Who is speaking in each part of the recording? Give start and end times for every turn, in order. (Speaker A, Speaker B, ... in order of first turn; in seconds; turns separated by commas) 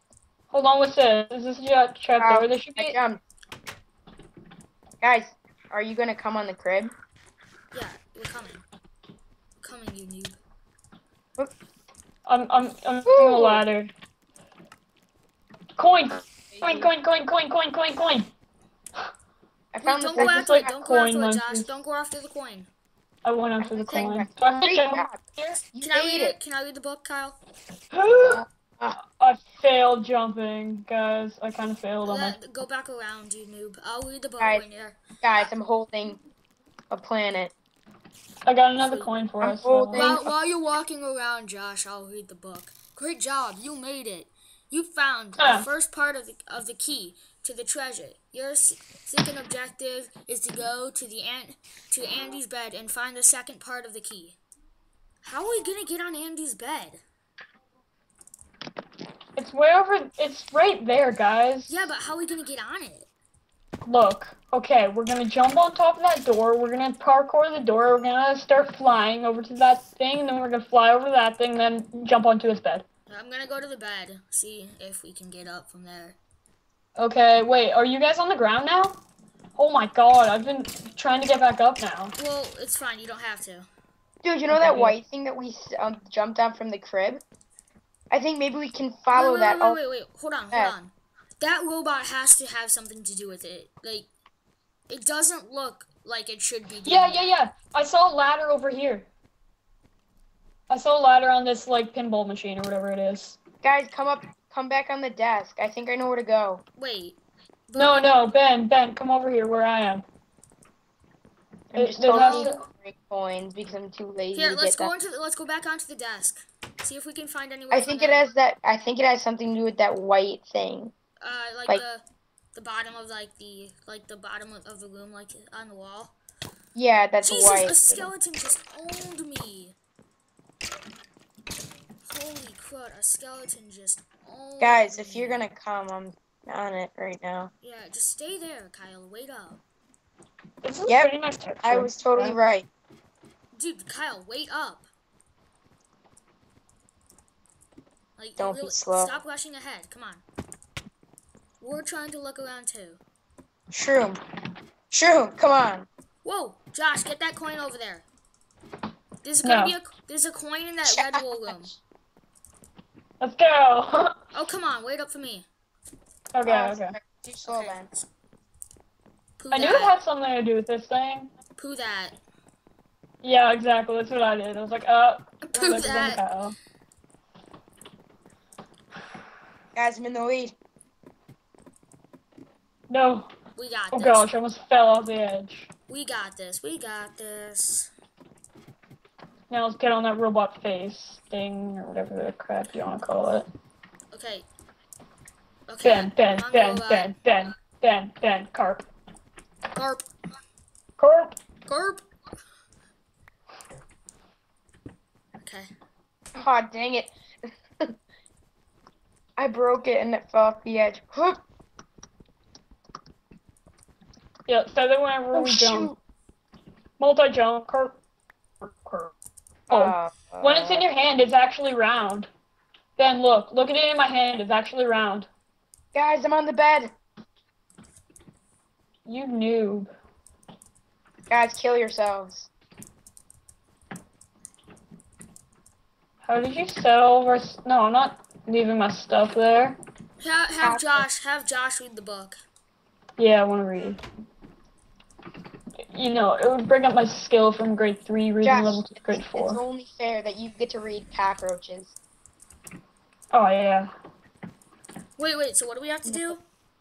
Speaker A: 0.5-3.0, Speaker B: 2.2-3.2, Speaker B: 5.0-6.9, Speaker C: 7.7-8.7, Speaker C: 9.6-10.4, Speaker A: 12.3-13.9, Speaker B: 13.1-13.6, Speaker A: 15.8-18.3, Speaker B: 16.5-16.9, Speaker B: 19.7-20.7, Speaker C: 19.8-22.7, Speaker A: 20.1-21.8, Speaker A: 23.2-25.6, Speaker B: 23.6-26.4, Speaker C: 25.8-27.4, Speaker A: 27.9-28.4, Speaker B: 28.3-29.0, Speaker A: 29.0-32.4, Speaker C: 32.0-35.5, Speaker B: 34.4-34.6, Speaker B: 35.2-36.2, Speaker B: 36.9-37.5, Speaker A: 38.5-40.2, Speaker C: 38.8-39.1, Speaker B: 39.4-40.3, Speaker C: 39.9-54.4, Speaker A: 45.4-45.7, Speaker C: 55.2-57.0, Speaker A: 59.4-61.9, Speaker C: 61.7-63.1, Speaker A: 63.9-72.8, Speaker C: 73.1-76.2, Speaker A: 77.0-79.0, Speaker A: 79.6-82.2, Speaker C: 82.2-83.7, Speaker B: 84.2-87.2, Speaker A: 84.5-85.0, Speaker B: 88.1-89.8, Speaker C: 89.1-94.1, Speaker C: 94.9-97.3, Speaker A: 96.8-99.1, Speaker A: 100.7-103.4, Speaker B: 103.6-106.6, Speaker C: 106.8-107.2, Speaker C: 107.7-108.3, Speaker A: 107.8-110.0, Speaker B: 111.7-115.1, Speaker A: 111.8-112.6, Speaker C: 112.1-112.5, Speaker C: 114.3-118.3, Speaker B: 117.7-120.9, Speaker C: 121.2-122.0, Speaker C: 122.5-126.2, Speaker B: 126.8-128.1, Speaker C: 127.2-129.8, Speaker C: 132.1-135.4, Speaker B: 134.6-137.5, Speaker C: 137.6-139.6, Speaker A: 140.6-142.4, Speaker B: 140.9-141.1, Speaker B: 141.6-142.7, Speaker C: 143.5-144.9, Speaker C: 148.2-150.2, Speaker B: 148.4-149.2, Speaker C: 151.6-153.0, Speaker B: 153.7-154.2, Speaker B: 154.9-155.9, Speaker C: 156.2-158.1, Speaker C: 159.2-161.8, Speaker A: 159.4-159.8, Speaker B: 160.8-161.2, Speaker A: 163.2-164.2, Speaker C: 164.3-165.5, Speaker A: 166.3-166.9, Speaker B: 166.4-167.9, Speaker C: 167.5-168.1, Speaker C: 169.4-170.0, Speaker A: 169.5-171.3, Speaker C: 171.6-172.2, Speaker A: 173.2-176.6, Speaker C: 175.5-176.2, Speaker B: 175.7-175.9, Speaker B: 179.8-180.6, Speaker A: 182.9-183.3, Speaker C: 183.6-184.3, Speaker A: 183.9-185.7, Speaker C: 185.9-187.9, Speaker A: 189.5-193.5, Speaker C: 194.1-194.5, Speaker C: 195.7-197.2, Speaker A: 195.8-198.9, Speaker C: 199.7-200.0, Speaker A: 201.0-201.4, Speaker C: 201.7-202.0, Speaker C: 205.4-205.7, Speaker B: 206.3-207.1, Speaker B: 209.4-211.4, Speaker A: 214.5-215.9, Speaker B: 215.3-216.0, Speaker A: 217.0-218.0, Speaker A: 218.6-219.1, Speaker A: 219.7-222.3, Speaker B: 219.7-220.8, Speaker A: 223.0-225.3, Speaker B: 225.9-226.9, Speaker A: 229.1-229.9, Speaker B: 231.3-232.5, Speaker A: 236.2-239.8, Speaker C: 240.2-242.4, Speaker B: 240.6-241.1, Speaker A: 243.2-244.0, Speaker A: 245.9-249.6, Speaker B: 248.4-252.0, Speaker A: 253.3-253.9, Speaker C: 255.2-256.4, Speaker B: 256.1-256.3